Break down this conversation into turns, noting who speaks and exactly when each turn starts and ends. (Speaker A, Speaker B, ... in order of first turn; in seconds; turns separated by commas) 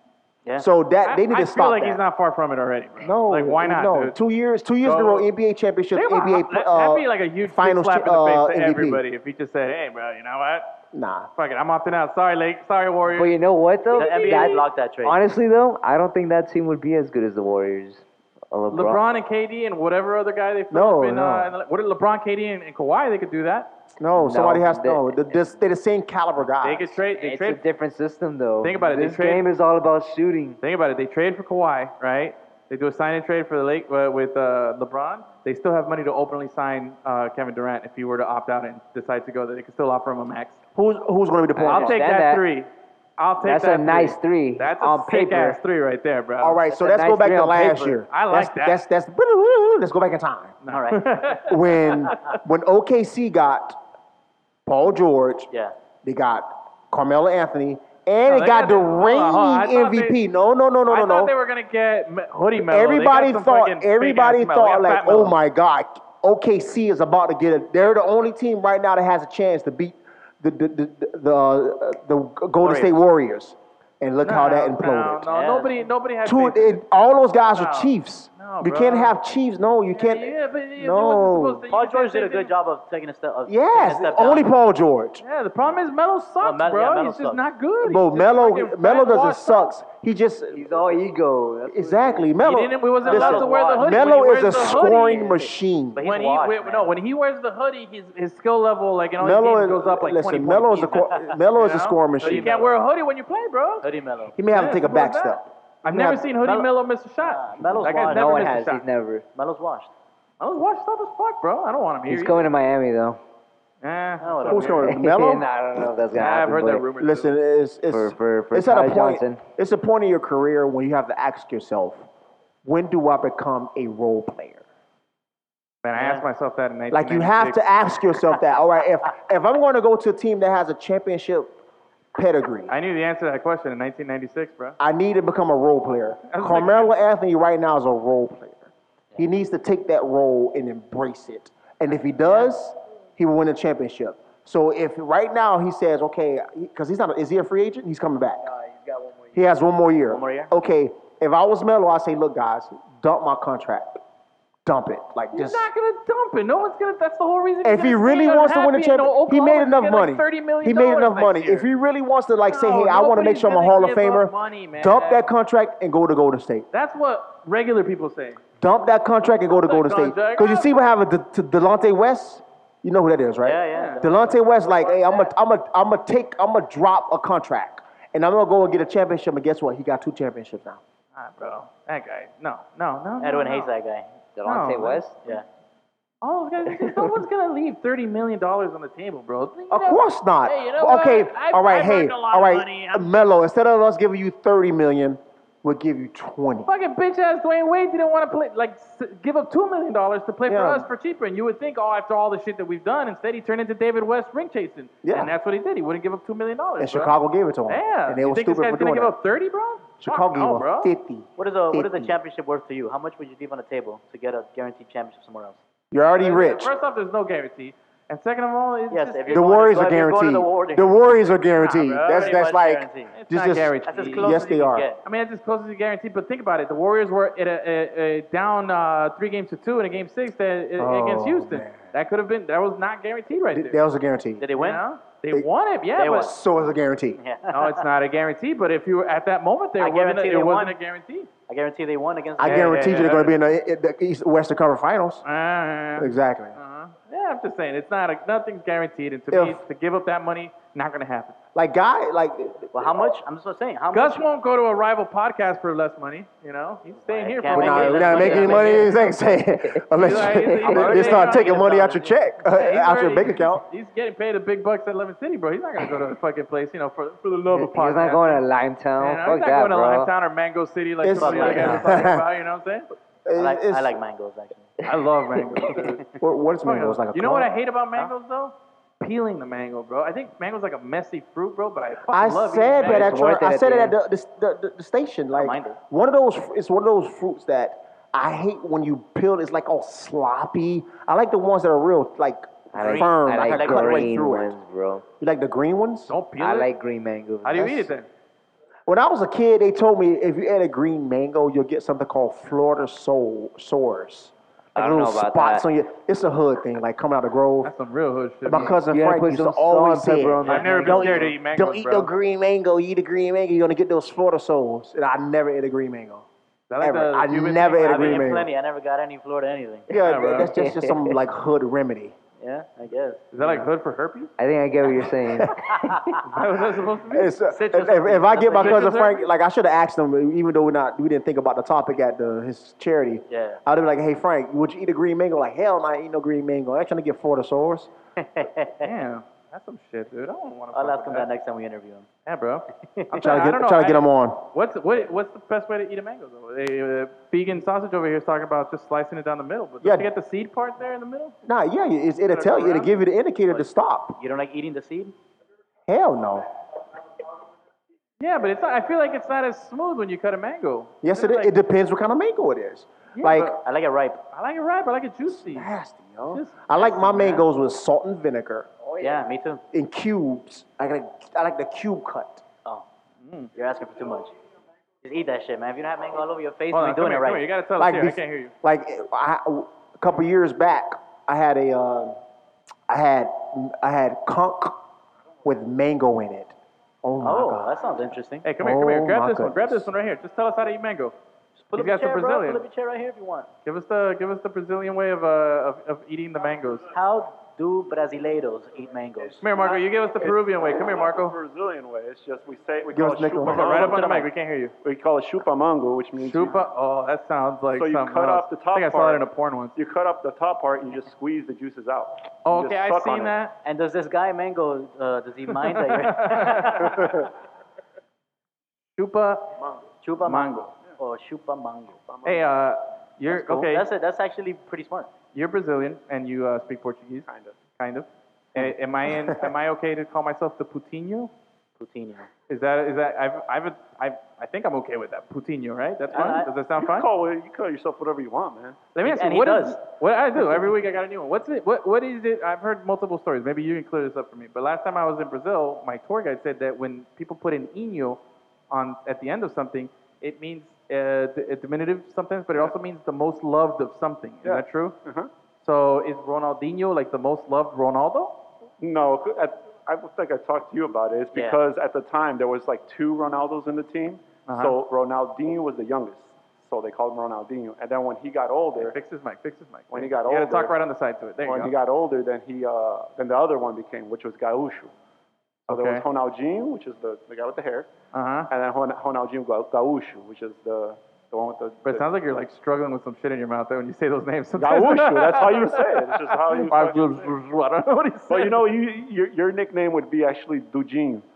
Speaker A: 0.6-2.0, Speaker B: 1.0-4.2, Speaker A: 3.0-9.0, Speaker B: 4.8-5.3, Speaker B: 5.9-10.7, Speaker A: 10.9-11.3, Speaker B: 11.4-13.4, Speaker C: 13.1-19.0, Speaker B: 13.9-14.6, Speaker D: 13.9-15.2, Speaker B: 18.7-23.7, Speaker A: 20.7-21.5, Speaker A: 24.0-27.0, Speaker C: 24.2-25.4, Speaker B: 26.6-27.6, Speaker C: 27.2-30.6, Speaker B: 28.6-29.4, Speaker B: 30.6-40.6, Speaker A: 40.8-42.0, Speaker C: 41.6-42.4, Speaker B: 41.6-46.6, Speaker C: 43.4-45.6, Speaker A: 46.4-50.5, Speaker C: 46.7-48.0, Speaker B: 48.1-48.8, Speaker B: 50.6-52.4, Speaker D: 50.7-51.4, Speaker A: 51.5-53.8, Speaker A: 54.7-55.5, Speaker A: 56.0-61.3, Speaker B: 58.3-60.2, Speaker B: 60.9-65.4, Speaker A: 62.6-75.2, Speaker D: 72.6-73.0, Speaker B: 74.2-76.8, Speaker D: 75.3-75.8, Speaker A: 76.2-81.7, Speaker B: 77.5-79.2, Speaker B: 79.9-82.5, Speaker D: 81.7-84.5, Speaker A: 83.5-85.2, Speaker B: 85.2-89.7, Speaker D: 86.4-87.5, Speaker A: 87.8-91.0, Speaker C: 90.5-92.3, Speaker A: 91.7-96.0, Speaker B: 92.4-95.3, Speaker D: 93.0-94.2, Speaker C: 94.9-95.5, Speaker D: 96.0-97.0, Speaker B: 96.0-103.8, Speaker A: 99.2-102.6, Speaker D: 102.2-102.7, Speaker D: 103.8-104.3, Speaker A: 104.4-106.2, Speaker B: 104.5-108.8, Speaker D: 106.4-106.7, Speaker D: 107.2-108.6, Speaker C: 107.7-109.2, Speaker D: 109.3-109.9, Speaker B: 110.4-112.5, Speaker C: 112.1-113.2, Speaker B: 113.8-114.8, Speaker D: 114.2-114.9, Speaker A: 114.5-115.5, Speaker C: 114.8-116.9, Speaker B: 116.1-117.3, Speaker A: 117.0-122.0, Speaker C: 117.9-119.4, Speaker A: 122.6-124.6, Speaker B: 125.8-127.6, Speaker D: 126.0-126.3, Speaker A: 126.9-131.6, Speaker A: 132.1-132.7, Speaker B: 132.7-134.8, Speaker A: 134.8-148.5, Speaker B: 136.3-137.0, Speaker D: 142.2-142.5, Speaker C: 148.5-149.3, Speaker A: 149.3-154.0, Speaker D: 150.1-150.5, Speaker A: 154.7-155.7, Speaker B: 155.3-161.7, Speaker A: 157.6-166.7, Speaker B: 162.5-165.3, Speaker B: 166.7-168.4, Speaker A: 168.6-180.8, Speaker B: 169.5-170.7, Speaker D: 173.4-175.2, Speaker B: 173.7-174.0, Speaker B: 181.2-183.7, Speaker D: 183.2-184.1, Speaker C: 184.4-185.2, Speaker B: 184.4-185.0, Speaker B: 186.2-193.1, Speaker A: 189.7-196.7, Speaker B: 196.7-207.1, Speaker A: 200.5-200.9, Speaker A: 205.0-205.3, Speaker A: 206.8-209.2, Speaker B: 207.7-210.9, Speaker A: 210.0-212.2, Speaker D: 211.4-215.6, Speaker A: 215.9-216.7, Speaker B: 216.2-219.9, Speaker D: 218.9-221.2, Speaker A: 219.3-224.9, Speaker B: 221.6-222.5, Speaker D: 222.1-223.1, Speaker B: 223.2-224.4, Speaker D: 223.9-225.0, Speaker B: 225.0-233.8, Speaker A: 230.8-231.9, Speaker A: 233.5-234.4, Speaker D: 234.4-234.8, Speaker B: 234.6-236.3, Speaker D: 236.0-236.3, Speaker A: 236.0-237.2, Speaker D: 237.2-237.8, Speaker B: 237.5-241.3, Speaker D: 239.8-240.8, Speaker D: 241.5-243.2, Speaker A: 242.4-245.2, Speaker B: 242.4-243.4, Speaker B: 245.2-251.3, Speaker A: 246.0-246.6, Speaker A: 249.3-249.6, Speaker A: 251.6-252.7, Speaker D: 252.7-254.3, Speaker B: 253.9-258.9, Speaker D: 256.9-259.0, Speaker A: 257.5-263.6, Speaker B: 259.9-268.5, Speaker C: 260.2-260.8, Speaker D: 260.7-262.1, Speaker C: 267.5-270.1, Speaker B: 269.0-272.9, Speaker A: 271.0-272.3, Speaker D: 271.1-272.0, Speaker A: 273.2-273.9, Speaker D: 273.4-274.7, Speaker B: 274.8-276.1, Speaker A: 276.2-277.5, Speaker B: 276.6-283.4, Speaker A: 282.1-294.6, Speaker C: 282.9-284.0, Speaker D: 285.3-285.8, Speaker C: 292.7-295.0, Speaker D: 292.8-294.2, Speaker A: 295.2-296.1, Speaker B: 296.1-296.7, Speaker C: 296.4-297.8, Speaker B: 297.4-298.1, Speaker A: 297.6-297.9, Speaker A: 298.9-307.7, Speaker C: 304.8-305.7, Speaker B: 307.6-308.8, Speaker A: 308.4-316.2, Speaker C: 308.9-311.3, Speaker B: 310.4-312.1, Speaker B: 316.7-318.4, Speaker A: 316.8-318.5, Speaker D: 317.9-319.9, Speaker A: 319.9-322.1, Speaker C: 320.0-321.2, Speaker B: 320.0-320.5, Speaker D: 322.4-323.6, Speaker B: 323.3-324.3, Speaker C: 324.4-326.2, Speaker A: 325.3-325.6, Speaker B: 326.2-327.3, Speaker A: 327.1-337.9, Speaker D: 327.5-329.0, Speaker B: 328.5-329.2, Speaker D: 333.3-333.6, Speaker D: 338.2-338.9, Speaker B: 338.8-341.3, Speaker D: 340.7-342.1, Speaker B: 342.3-351.4, Speaker D: 342.9-343.3, Speaker A: 343.2-344.4, Speaker A: 349.8-350.1, Speaker A: 351.4-354.2, Speaker B: 352.3-352.9, Speaker D: 354.2-355.1, Speaker A: 355.9-356.5, Speaker B: 358.2-361.5, Speaker A: 361.0-363.6, Speaker B: 363.1-363.6, Speaker D: 363.6-364.2, Speaker B: 364.3-365.7, Speaker A: 365.3-368.7, Speaker B: 366.2-367.5, Speaker D: 369.0-369.6, Speaker A: 369.7-372.4, Speaker B: 373.2-373.5, Speaker D: 373.6-374.3, Speaker D: 375.0-377.4, Speaker B: 376.7-378.5, Speaker A: 377.8-382.2, Speaker A: 382.9-384.8, Speaker A: 385.4-387.8, Speaker D: 387.2-388.5, Speaker B: 388.4-391.1, Speaker A: 388.6-389.9, Speaker D: 391.6-393.5, Speaker B: 391.8-392.6, Speaker B: 393.6-396.9, Speaker D: 396.9-399.4, Speaker B: 399.4-401.4, Speaker E: 399.5-404.0, Speaker A: 402.9-403.8, Speaker B: 403.5-404.7, Speaker D: 403.6-404.3, Speaker E: 404.8-406.6, Speaker B: 406.2-409.8, Speaker E: 407.7-409.2, Speaker E: 409.8-413.4, Speaker B: 412.4-413.5, Speaker D: 413.6-417.2, Speaker B: 415.5-417.3, Speaker B: 419.0-419.6, Speaker D: 420.0-422.0, Speaker B: 420.2-420.7, Speaker E: 422.1-422.5, Speaker B: 422.2-423.9, Speaker D: 423.3-425.1, Speaker B: 425.3-431.3, Speaker E: 427.3-427.6, Speaker D: 431.8-432.3, Speaker B: 432.5-437.1, Speaker D: 436.1-436.5, Speaker E: 436.2-438.8, Speaker B: 438.9-448.2, Speaker D: 439.0-439.8, Speaker B: 448.7-455.0, Speaker E: 454.4-455.3, Speaker B: 455.6-458.4, Speaker E: 458.8-469.0, Speaker D: 461.3-461.6, Speaker B: 464.5-464.8, Speaker B: 468.8-471.7, Speaker E: 469.9-470.8, Speaker E: 471.4-474.9, Speaker B: 475.7-476.0, Speaker E: 475.7-477.9, Speaker B: 478.1-478.5, Speaker E: 478.5-482.1, Speaker B: 481.9-488.7, Speaker E: 484.6-487.3, Speaker E: 488.3-491.2